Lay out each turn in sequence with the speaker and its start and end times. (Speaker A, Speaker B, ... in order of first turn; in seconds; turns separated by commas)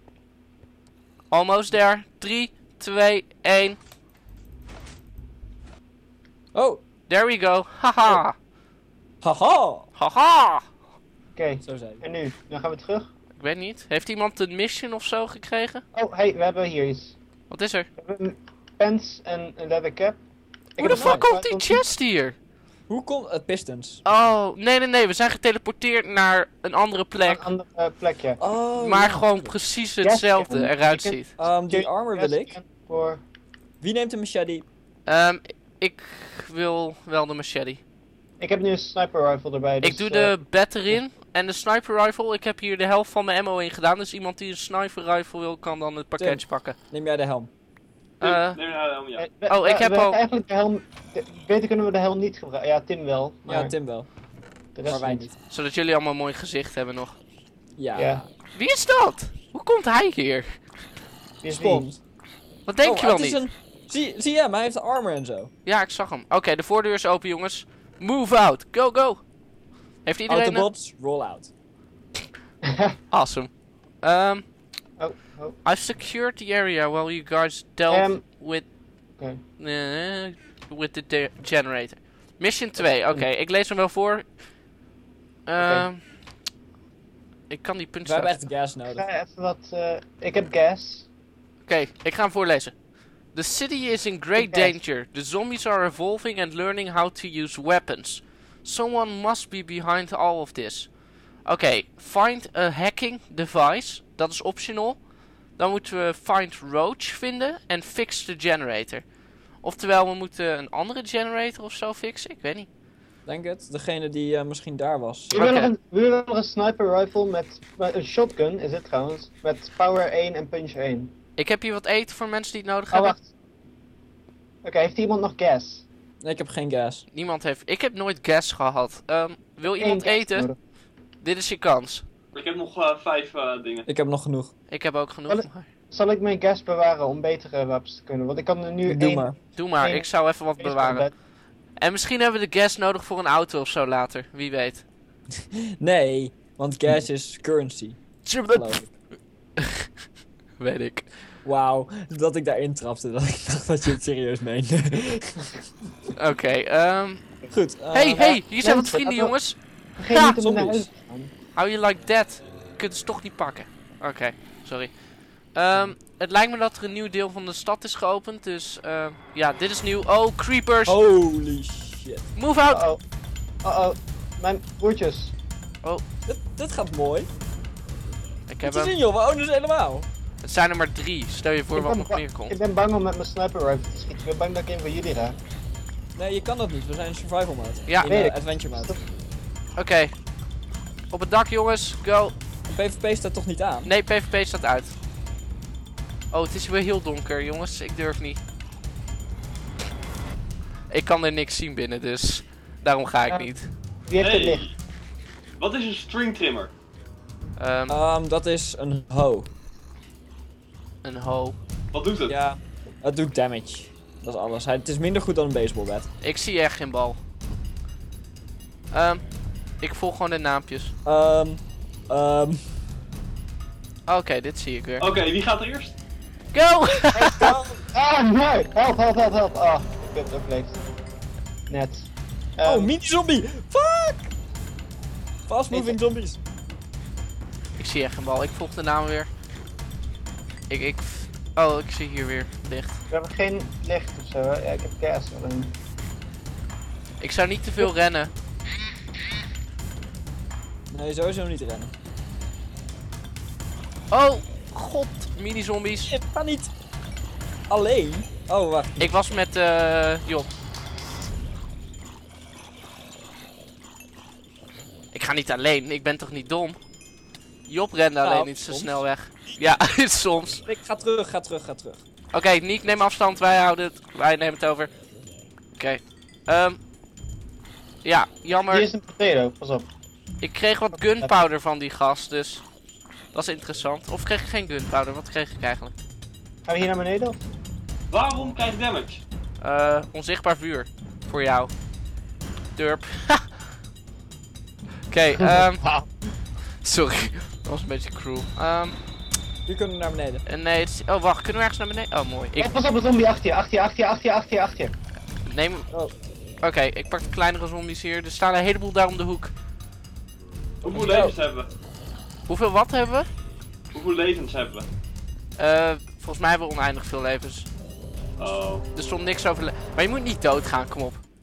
Speaker A: 1.3-3.8, Speaker B: 6.5-6.8, Speaker A: 7.1-8.4, Speaker B: 9.2-9.9, Speaker A: 10.0-10.7, Speaker C: 11.3-13.1, Speaker B: 11.6-12.0, Speaker A: 13.4-15.8, Speaker C: 15.9-17.2, Speaker A: 17.5-17.9, Speaker C: 18.0-20.2, Speaker C: 20.8-21.8, Speaker A: 20.8-22.4, Speaker B: 20.8-21.3, Speaker B: 22.9-24.0, Speaker A: 24.1-27.5, Speaker C: 27.2-28.4, Speaker B: 28.4-29.5, Speaker A: 28.8-31.3, Speaker C: 30.0-33.2, Speaker B: 31.4-32.6, Speaker B: 33.8-34.7, Speaker A: 35.1-37.8, Speaker C: 38.4-40.4, Speaker A: 39.8-46.8, Speaker B: 46.2-47.5, Speaker A: 48.2-48.6, Speaker D: 48.2-49.2, Speaker C: 49.2-53.7, Speaker A: 49.5-50.2, Speaker B: 53.5-54.1, Speaker C: 54.8-55.3, Speaker B: 54.9-55.4, Speaker A: 55.5-57.2, Speaker B: 57.8-58.3, Speaker C: 58.0-58.2, Speaker A: 58.5-60.5, Speaker C: 61.4-61.9, Speaker B: 61.5-62.0, Speaker A: 62.7-63.4, Speaker B: 62.8-65.5, Speaker A: 65.7-69.3, Speaker A: 70.0-70.7, Speaker B: 70.3-71.5, Speaker C: 72.7-72.9, Speaker A: 73.1-74.5, Speaker C: 75.0-75.6, Speaker A: 75.6-78.7, Speaker C: 77.9-78.2, Speaker A: 79.6-84.4, Speaker C: 82.8-83.3, Speaker A: 85.5-86.0, Speaker C: 85.6-85.9, Speaker A: 87.5-88.4, Speaker B: 88.0-89.1, Speaker C: 88.9-91.1, Speaker A: 91.7-92.8, Speaker A: 93.3-112.7, Speaker C: 94.4-94.8, Speaker B: 113.3-115.3, Speaker A: 115.3-115.7, Speaker C: 115.3-121.1, Speaker A: 121.4-123.2, Speaker C: 122.9-123.3, Speaker C: 124.6-125.8, Speaker B: 126.2-127.0, Speaker A: 127.1-130.5, Speaker C: 129.7-130.6, Speaker A: 131.2-132.1, Speaker D: 132.3-133.9, Speaker B: 133.9-134.5, Speaker A: 134.7-135.7, Speaker C: 135.3-141.1, Speaker B: 138.8-139.4, Speaker A: 139.6-141.1, Speaker A: 141.8-144.9, Speaker B: 145.8-148.9, Speaker A: 148.2-148.9, Speaker A: 149.6-149.9, Speaker A: 150.6-151.1, Speaker B: 151.4-155.6, Speaker A: 156.2-157.3, Speaker B: 157.5-158.4, Speaker A: 157.9-160.3, Speaker C: 158.2-161.3, Speaker B: 160.3-160.9, Speaker A: 161.6-170.9, Speaker B: 170.9-172.3, Speaker A: 172.3-172.8, Speaker C: 172.7-173.0, Speaker C: 173.6-175.3, Speaker B: 176.3-177.3, Speaker A: 178.5-178.9, Speaker B: 178.6-180.1, Speaker A: 180.4-182.6, Speaker C: 181.8-185.4, Speaker B: 186.2-188.9, Speaker C: 188.1-189.0, Speaker A: 189.8-190.3, Speaker A: 191.1-192.4, Speaker B: 192.7-193.9, Speaker A: 193.8-194.9, Speaker A: 196.3-198.4, Speaker A: 200.9-203.7, Speaker C: 204.1-204.7, Speaker D: 204.2-204.8, Speaker D: 205.6-206.7, Speaker A: 207.6-207.9, Speaker B: 207.9-209.5, Speaker A: 211.0-211.6, Speaker D: 211.9-212.3, Speaker B: 212.3-216.1, Speaker A: 216.2-217.2, Speaker A: 218.9-219.3, Speaker A: 219.8-220.9, Speaker B: 221.1-222.7, Speaker A: 224.1-225.1, Speaker D: 225.0-225.9, Speaker A: 226.5-227.5, Speaker C: 227.1-230.8, Speaker B: 227.4-227.8, Speaker C: 231.7-232.9, Speaker B: 232.6-234.3, Speaker B: 235.5-236.4, Speaker C: 235.7-236.0, Speaker A: 237.8-239.3, Speaker A: 240.7-243.0, Speaker C: 243.1-245.7, Speaker A: 247.2-248.3, Speaker B: 250.9-251.9, Speaker A: 254.1-256.1, Speaker B: 256.1-256.7, Speaker B: 257.7-259.1, Speaker A: 259.0-260.5, Speaker A: 265.1-266.8, Speaker A: 267.7-270.6, Speaker B: 268.2-269.1, Speaker B: 270.7-272.0, Speaker A: 272.3-275.0, Speaker A: 275.8-276.8, Speaker A: 278.0-278.9, Speaker C: 278.7-279.9, Speaker A: 280.4-282.7, Speaker C: 280.9-281.4, Speaker A: 283.3-285.9, Speaker C: 286.7-287.4, Speaker D: 288.1-289.2, Speaker A: 289.6-291.8, Speaker A: 292.8-293.6, Speaker A: 295.1-295.9, Speaker C: 295.6-296.1, Speaker A: 296.8-299.0, Speaker B: 299.7-300.4, Speaker A: 300.5-302.8, Speaker C: 302.6-304.9, Speaker A: 305.4-305.9, Speaker A: 306.6-309.5, Speaker D: 310.8-311.7, Speaker B: 310.9-311.3, Speaker A: 312.5-313.3, Speaker D: 313.9-314.9, Speaker A: 315.6-317.7, Speaker D: 318.4-318.9, Speaker A: 318.9-321.2